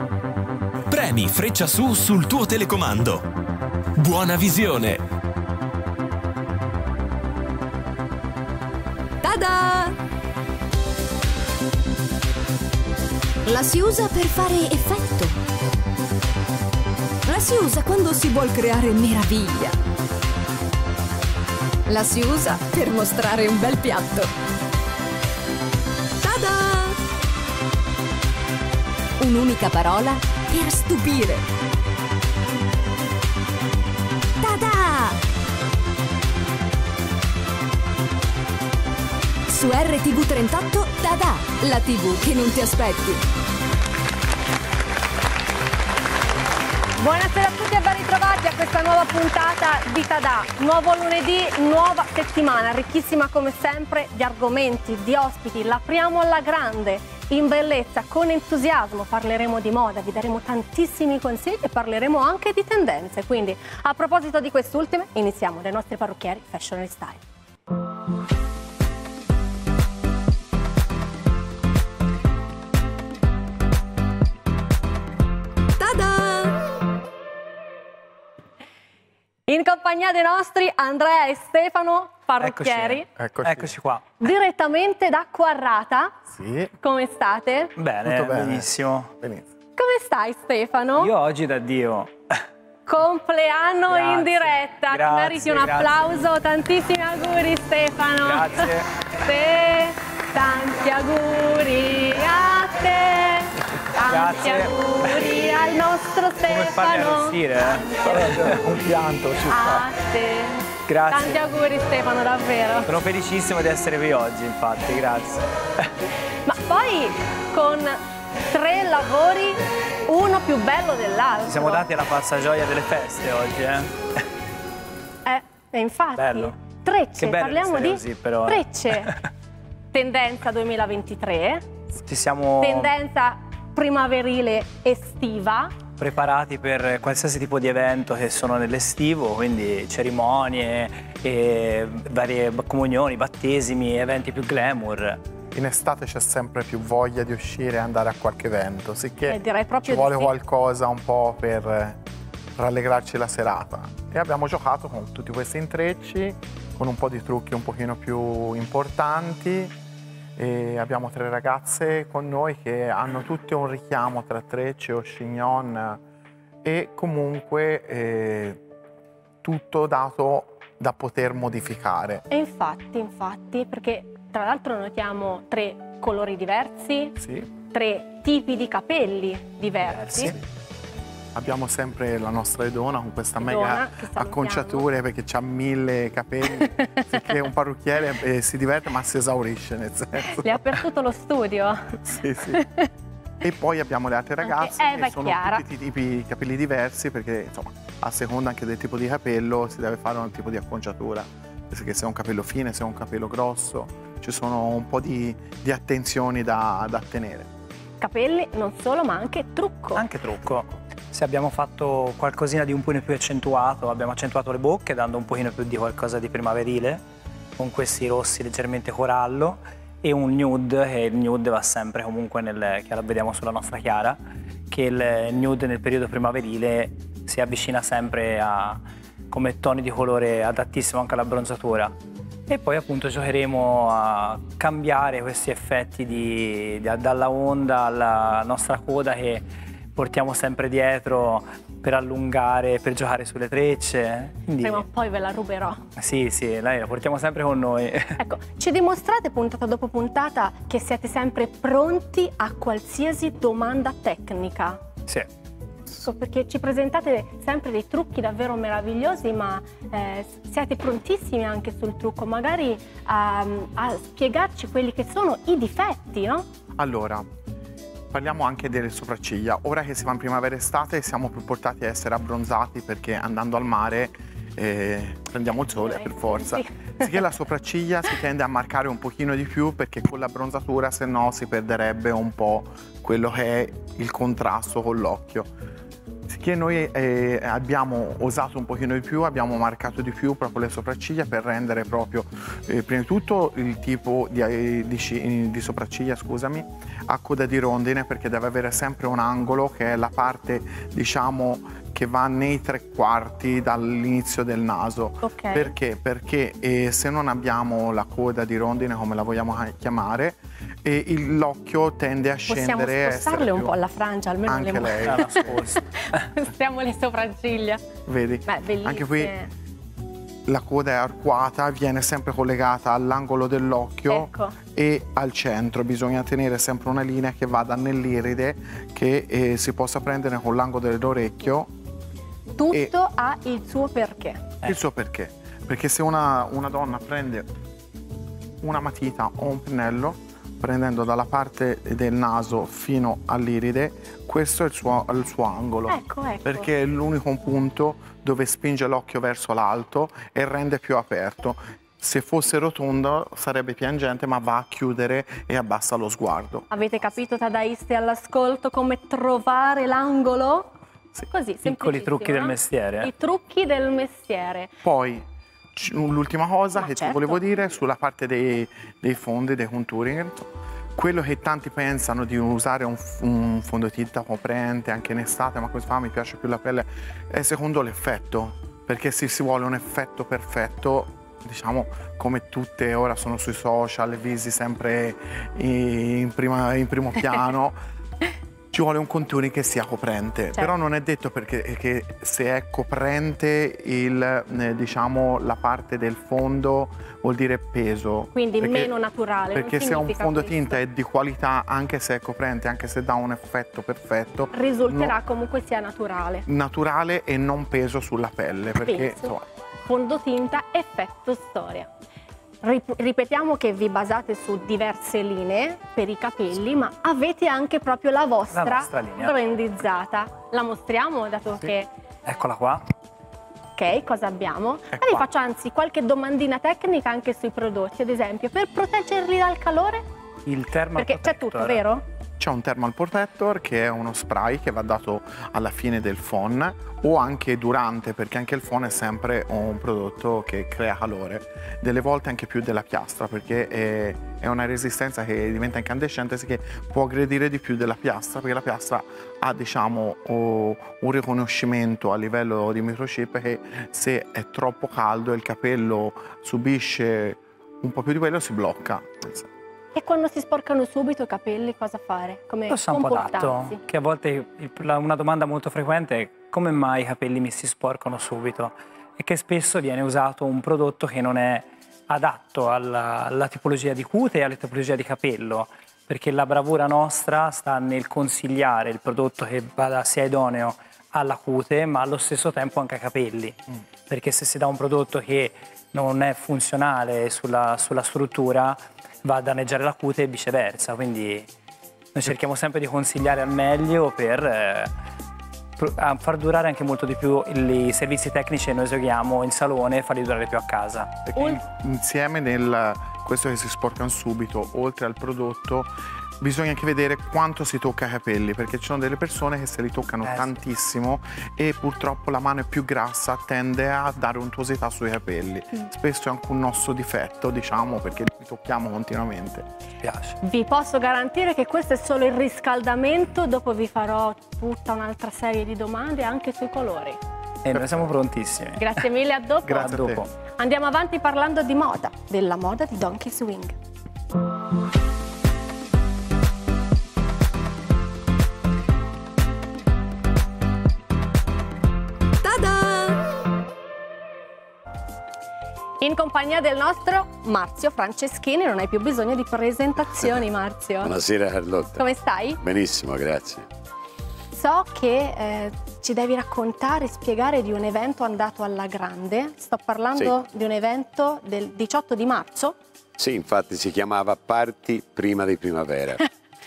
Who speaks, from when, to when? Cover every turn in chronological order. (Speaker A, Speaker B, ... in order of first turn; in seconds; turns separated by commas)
Speaker A: 0.9-3.2, Speaker A: 4.0-5.0, Speaker B: 9.2-9.9, Speaker B: 13.4-15.3, Speaker B: 17.2-19.8, Speaker B: 21.9-24.3, Speaker B: 26.2-27.0, Speaker B: 29.2-31.4, Speaker B: 34.4-35.2, Speaker B: 39.5-43.2, Speaker C: 47.0-67.2, Speaker B: 76.0-76.5, Speaker C: 79.5-83.0, Speaker D: 82.4-84.1, Speaker E: 83.2-83.8, Speaker C: 84.2-86.2, Speaker E: 86.3-86.7, Speaker C: 86.8-87.7, Speaker D: 87.8-89.1, Speaker E: 88.0-89.5, Speaker C: 89.8-91.1, Speaker D: 91.0-92.2, Speaker C: 92.8-107.4, Speaker D: 93.9-96.2, Speaker D: 98.2-98.9, Speaker D: 104.0-105.3, Speaker D: 106.4-109.4, Speaker E: 108.2-109.2, Speaker C: 109.5-110.6, Speaker D: 110.9-111.4, Speaker C: 111.1-112.9, Speaker D: 112.9-115.9, Speaker C: 116.4-121.8, Speaker D: 121.4-123.9, Speaker C: 125.2-129.2, Speaker D: 126.2-126.6, Speaker D: 127.2-129.2, Speaker C: 129.9-131.7, Speaker D: 132.0-132.9, Speaker C: 132.6-135.7, Speaker D: 136.0-145.2, Speaker E: 145.5-152.0, Speaker C: 149.3-150.3, Speaker E: 152.6-159.7, Speaker E: 160.3-166.0, Speaker E: 166.6-168.6, Speaker E: 169.4-172.2, Speaker C: 172.3-177.2, Speaker E: 177.2-177.5, Speaker C: 177.7-180.3, Speaker D: 180.0-180.3, Speaker E: 181.3-190.7, Speaker C: 183.4-184.9, Speaker C: 190.2-192.9, Speaker E: 192.0-192.6, Speaker E: 193.4-207.5, Speaker C: 194.4-195.6, Speaker C: 208.0-210.0, Speaker E: 209.9-210.8, Speaker D: 210.4-217.0, Speaker D: 217.6-224.2, Speaker D: 224.7-231.9, Speaker D: 232.5-244.8, Speaker C: 244.6-245.8, Speaker D: 246.0-248.2, Speaker C: 248.2-254.8, Speaker C: 256.0-266.4, Speaker E: 266.8-267.2, Speaker E: 268.1-285.5, Speaker C: 275.7-277.2, Speaker E: 286.3-313.7, Speaker C: 305.2-305.7, Speaker C: 312.5-317.8, Speaker E: 314.4-315.6, Speaker D: 315.1-315.8, Speaker E: 318.1-319.3, Speaker C: 318.4-319.5, Speaker E: 320.4-331.7, Speaker C: 324.1-324.6, Speaker C: 332.6-334.4, Speaker E: 334.6-337.5, Speaker E: 338.6-356.9, Speaker C: 345.9-346.7, Speaker C: 356.7-360.7, Speaker C: 361.3-364.7, Speaker D: 361.6-363.1, Speaker E: 364.8-387.8, Speaker C: 366.8-367.4, Speaker E: 388.7-398.9, Speaker C: 398.3-400.8, Speaker E: 399.5-405.2, Speaker C: 404.5-406.4, Speaker E: 406.5-409.4, Speaker C: 408.8-411.9, Speaker C: 412.6-421.9, Speaker D: 418.5-419.3, Speaker D: 422.2-422.9, Speaker C: 423.8-430.0, Speaker E: 424.9-425.2, Speaker D: 430.4-431.8, Speaker C: 430.9-432.0, Speaker E: 432.4-459.5, Speaker C: 459.9-463.8, Speaker D: 462.7-491.5, Speaker D: 492.1-494.9, Speaker D: 495.8-501.2, Speaker E: 501.2-519.7, Speaker C: 501.4-501.6, Speaker D: 520.0-520.4, Speaker C: 520.4-527.2, Speaker D: 527.6-528.9, Speaker E: 527.7-528.1, Speaker C: 528.8-530.0, Speaker E: 529.6-530.2, Speaker D: 529.8-530.3, Speaker C: 530.6-533.8, Speaker C: 542.4-543.2, Speaker C: 546.0-551.1, Speaker F: 551.0-552.0, Speaker C: 552.0-552.6, Speaker F: 552.6-553.6, Speaker C: 554.5-562.8, Speaker F: 563.2-566.2